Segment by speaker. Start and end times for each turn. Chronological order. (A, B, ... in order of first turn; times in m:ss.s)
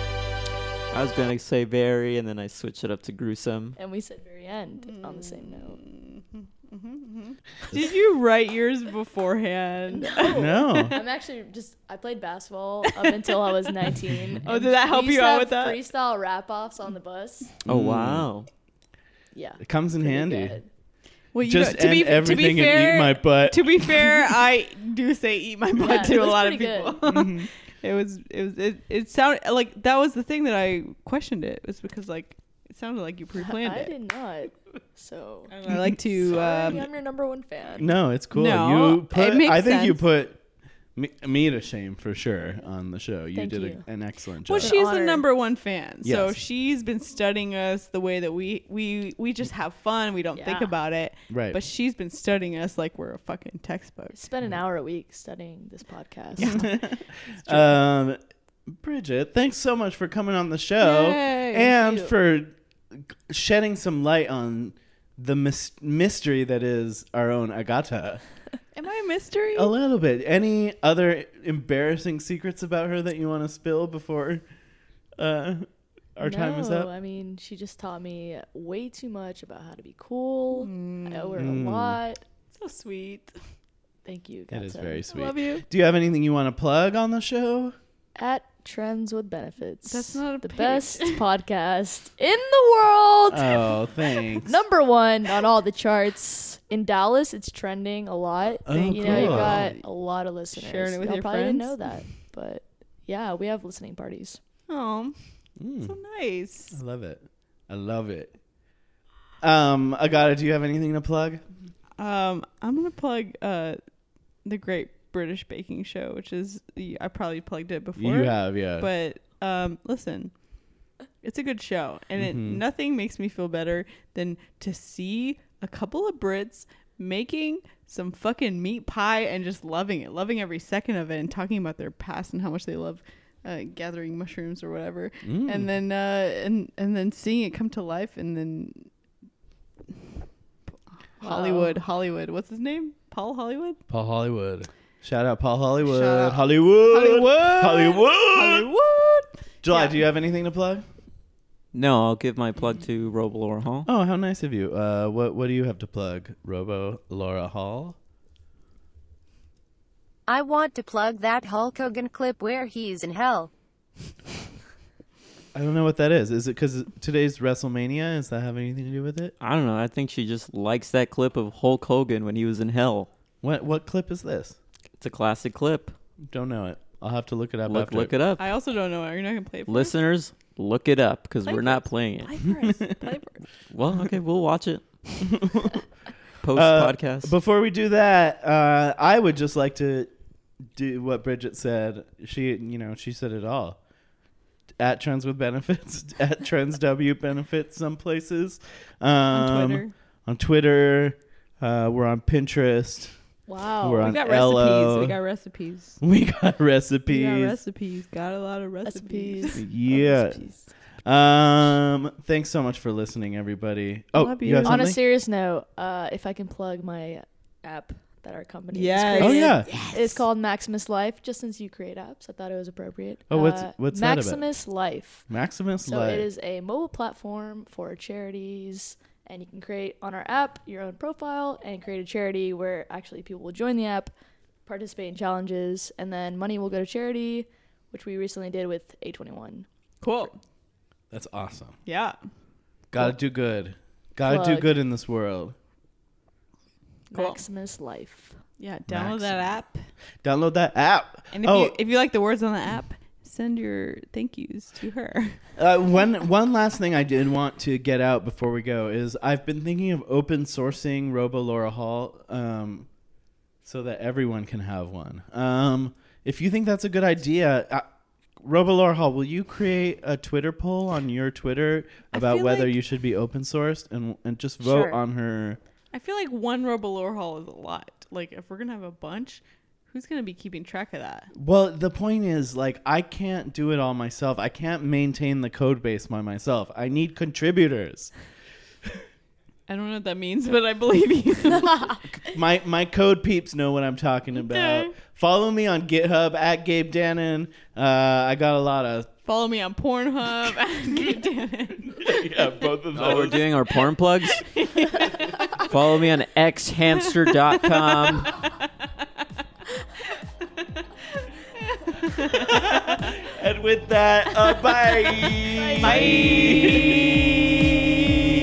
0:00.9-0:03.8 A
0:03.8-0:05.8 B
0:04.8-0:10.4 C
0:09.9-0:17.5 B
0:10.3-0:11.0 D
0:12.9-0:13.5 C
0:14.4-0:15.8 C
0:17.6-0:18.3 D
0:17.7-0:18.5 A
0:19.3-0:20.7 B
0:19.6-0:20.6 D
0:21.3-0:33.9 C
0:21.4-0:23.8 D
0:25.8-0:27.0 B
0:27.0-0:27.5 D
0:33.4-0:38.0 B
0:35.5-0:36.8 C
0:37.8-0:40.4 D
0:38.3-0:40.0 C
0:41.0-0:44.8 D
0:43.3-0:43.9 B
0:44.5-0:54.2 C
0:44.6-0:45.2 B
0:46.0-0:46.4 D
0:50.3-0:50.7 B
0:51.3-0:51.6 D
0:54.1-0:56.6 B
0:56.4-0:56.8 C
0:56.4-1:08.2 D
1:00.8-1:02.1 C
1:08.7-1:09.7 C
1:09.5-1:14.4 D
1:15.2-1:16.9 D
1:16.2-1:22.2 B
1:20.5-1:21.5 C
1:21.4-1:22.0 D
1:22.5-1:23.3 C
1:24.0-1:25.1 B
1:24.5-1:27.8 D
1:25.1-1:25.6 C
1:28.2-1:44.4 B
1:29.9-1:31.2 C
1:33.3-1:34.6 D
1:38.6-1:39.6 D
1:38.7-1:39.8 C
1:40.5-1:41.9 C
1:44.7-1:45.2 C
1:45.6-1:46.0 D
1:45.8-1:46.8 C
1:46.7-1:48.3 D
1:49.4-1:51.4 D
1:52.0-1:53.8 C
1:54.4-2:00.3 C
1:58.0-1:58.9 D
2:01.2-2:18.9 C
2:02.1-2:02.6 D
2:15.2-2:15.7 D
2:21.2-2:23.8 C
2:21.2-2:21.8 B
2:23.9-2:28.7 D
2:25.8-2:30.0 C
2:29.6-2:30.8 D
2:31.7-2:33.9 A
2:33.8-2:38.0 D
2:40.3-2:43.5 E
2:45.5-2:49.3 D
2:49.4-2:53.1 A
2:53.4-2:54.6 D
2:55.0-2:55.9 A
2:56.3-2:58.1 D
2:57.7-2:58.5 A
2:58.4-2:59.9 C
2:59.7-3:02.3 A
3:01.4-3:03.4 C
3:03.7-3:05.3 A
3:05.3-3:05.8 D
3:06.4-3:07.3 A
3:06.5-3:10.1 D
3:10.7-3:13.8 D
3:14.8-3:23.1 D
3:19.3-3:19.9 C
3:23.5-3:24.2 B
3:23.8-3:25.2 D
3:24.0-3:26.0 C
3:26.0-3:27.6 D
3:27.1-3:29.6 C
3:28.8-3:30.5 B
3:29.5-3:35.0 D
3:34.1-3:34.9 C
3:34.6-3:45.2 B
3:38.7-3:40.1 C
3:39.2-3:39.8 D
3:43.3-3:44.4 D
3:45.3-3:46.3 D
3:45.8-3:54.1 B
3:54.6-3:59.7 B
4:00.0-4:00.4 C
4:01.1-4:01.8 D
4:01.8-4:02.1 C
4:02.9-4:05.5 D
4:04.2-4:04.8 B
4:07.1-4:08.4 B
4:07.1-4:07.4 C
4:08.6-4:09.9 C
4:08.9-4:09.6 D
4:10.2-4:11.8 D
4:11.3-4:15.4 C
4:15.6-4:22.9 D
4:23.6-4:27.8 D
4:28.4-4:35.6 D
4:32.1-4:32.7 C
4:34.6-4:35.0 E
4:35.9-4:41.3 C
4:41.3-4:48.1 D
4:49.7-4:52.0 C
4:52.1-4:59.1 D
4:54.4-4:54.9 C
4:59.2-5:02.5 C
5:01.9-5:03.5 D
5:02.9-5:04.4 A
5:04.3-5:05.6 C
5:05.6-5:08.4 A
5:07.2-5:08.5 C
5:11.6-5:13.1 C
5:12.3-5:17.2 D
5:14.4-5:18.0 C
5:15.5-5:16.6 B